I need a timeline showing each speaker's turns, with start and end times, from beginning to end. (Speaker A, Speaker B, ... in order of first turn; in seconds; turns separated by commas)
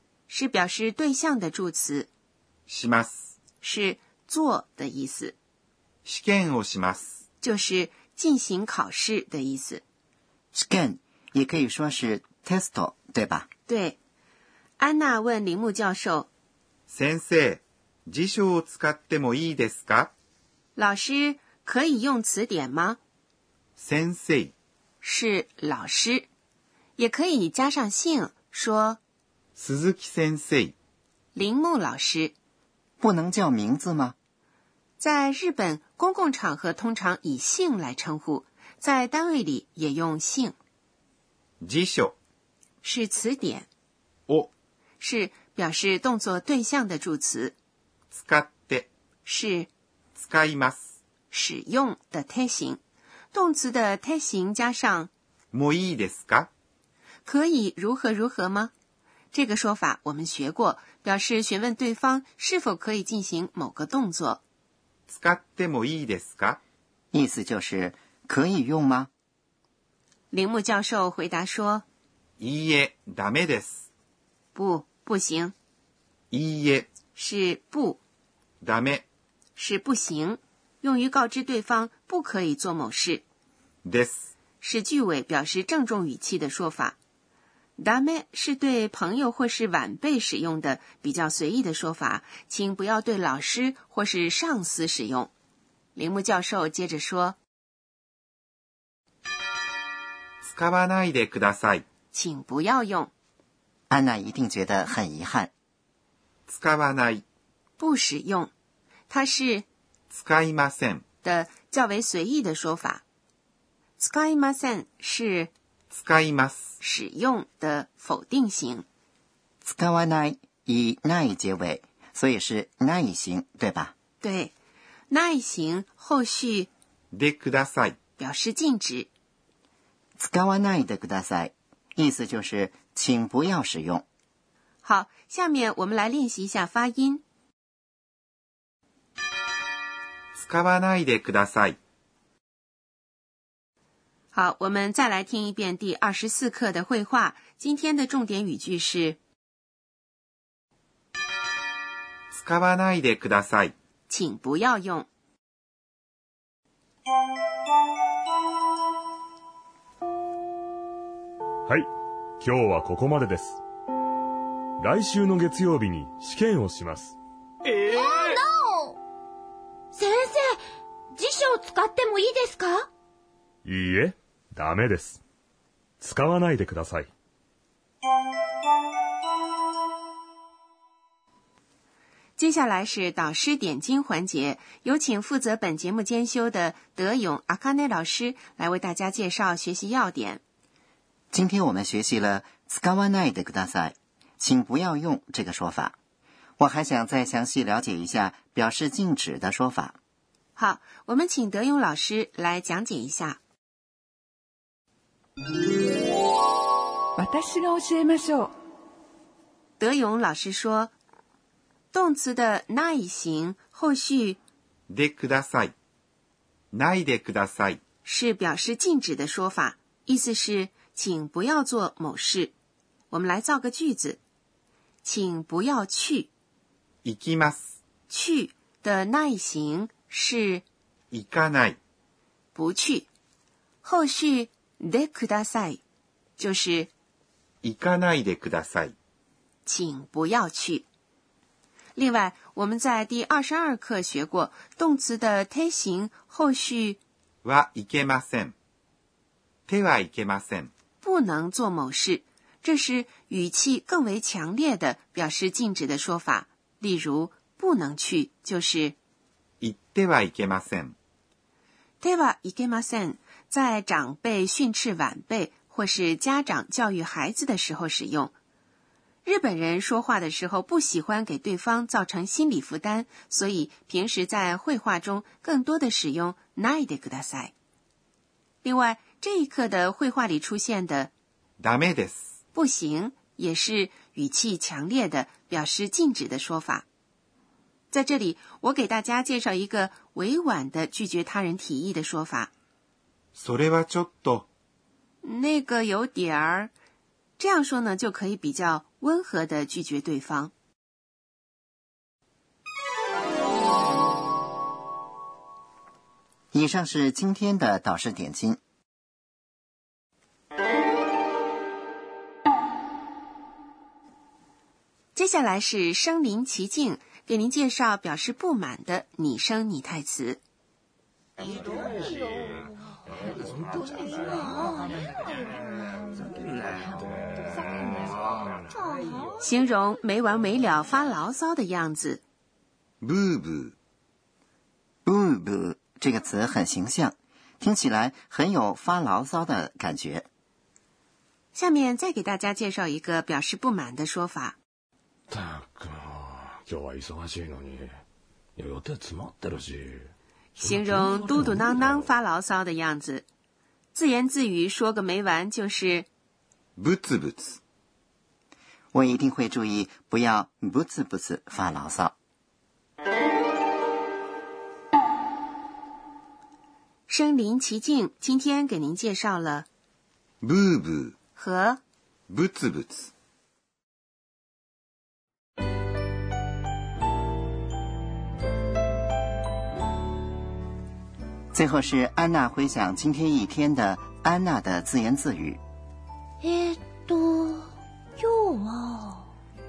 Speaker A: 0.3-2.1, Speaker B: 2.7-3.3, Speaker A: 3.6-5.3, Speaker B: 6.0-7.2, Speaker A: 7.4-9.8, Speaker C: 10.5-13.5, Speaker A: 13.7-14.0, Speaker A: 14.8-16.3, Speaker B: 16.9-20.1, Speaker A: 20.8-23.0, Speaker B: 23.8-24.5, Speaker A: 25.0-26.3, Speaker A: 27.0-29.0, Speaker B: 29.6-30.7, Speaker A: 31.3-32.3, Speaker C: 33.0-34.1, Speaker A: 35.0-40.5, Speaker B: 41.6-42.1, Speaker A: 42.8-43.7, Speaker A: 45.0-47.5, Speaker B: 48.1-48.9, Speaker A: 49.2-49.7, Speaker B: 50.1-50.8, Speaker A: 51.3-52.8, Speaker A: 53.3-55.1, Speaker B: 55.5-56.5, Speaker A: 57.2-58.7, Speaker A: 59.3-64.4, Speaker B: 65.1-66.6, Speaker C: 67.1-69.1, Speaker A: 70.3-71.8, Speaker B: 72.4-73.8, Speaker A: 74.5-75.5, Speaker B: 76.3-76.9, Speaker A: 77.1-78.0, Speaker B: 78.6-79.0, Speaker A: 79.5-83.2, Speaker B: 83.8-84.3, Speaker A: 84.6-87.0, Speaker A: 87.8-95.3, Speaker A: 95.9-97.4, Speaker B: 100.4-101.8, Speaker A: 102.1-103.1, Speaker C: 103.9-105.5, Speaker B: 106.5-107.2, Speaker A: 107.8-108.5, Speaker A: 109.1-109.7, Speaker B: 110.1-111.0, Speaker A: 111.2-113.0, Speaker A: 114.0-115.5, Speaker B: 115.9-116.7, Speaker A: 116.8-118.8, Speaker C: 119.6-123.9, Speaker A: 124.2-124.5, Speaker A: 125.1-126.7, Speaker B: 127.1-128.0, Speaker A: 128.2-129.1, Speaker C: 130.2-134.0, Speaker A: 134.8-137.2, Speaker B: 140.3-141.8, Speaker A: 144.3-149.2, Speaker B: 152.3-153.7, Speaker A: 154.1-155.1, Speaker D: 162.4-163.6, Speaker D: 164.8-167.1, Speaker E: 167.7-169.0, Speaker E: 169.9-170.6, Speaker E: 171.1-172.9, Speaker D: 173.6-175.2, Speaker D: 176.0-177.1, Speaker A: 182.4-190.4, Speaker C: 191.3-195.9, Speaker C: 196.6-200.0, Speaker A: 200.6-203.4, Speaker F: 207.2-208.5, Speaker A: 209.8-210.9, Speaker A: 211.9-214.4, Speaker B: 214.9-215.7, Speaker B: 216.7-217.8, Speaker A: 218.0-222.5, Speaker A: 223.1-224.2, Speaker A: 225.0-226.3, Speaker B: 227.0-227.7, Speaker A: 228.1-230.6, Speaker B: 231.1-231.8, Speaker A: 232.5-233.1, Speaker A: 233.8-235.8, Speaker A: 236.4-236.9, Speaker B: 237.6-238.9, Speaker A: 239.7-240.8, Speaker A: 241.9-247.0, Speaker B: 247.4-248.5, Speaker B: 249.7-250.7, Speaker A: 251.0-258.9, Speaker B: 259.6-260.9, Speaker A: 262.0-268.3, Speaker A: 269.2-277.5, Speaker A: 278.6-281.1, Speaker B: 281.6-282.2, Speaker A: 282.5-286.8, Speaker A: 287.9-292.5, Speaker B: 293.3-294.5, Speaker A: 295.2-296.7, Speaker A: 297.4-300.5, Speaker C: 306.5-308.6, Speaker A: 315.1-320.4, Speaker F: 327.5-328.1, Speaker A: 329.4-332.2, Speaker B: 333.0-333.7, Speaker C: 335.1-340.3, Speaker A: 341.5-344.6, Speaker G: 345.3-348.0, Speaker G: 348.6-352.0, Speaker A: 350.6-353.2, Speaker A: 353.9-356.1, Speaker B: 356.8-357.6, Speaker C: 358.9-362.1, Speaker A: 367.1-369.7, Speaker B: 370.4-371.1, Speaker A: 371.4-371.8, Speaker B: 372.3-373.1, Speaker C: 381.5-385.6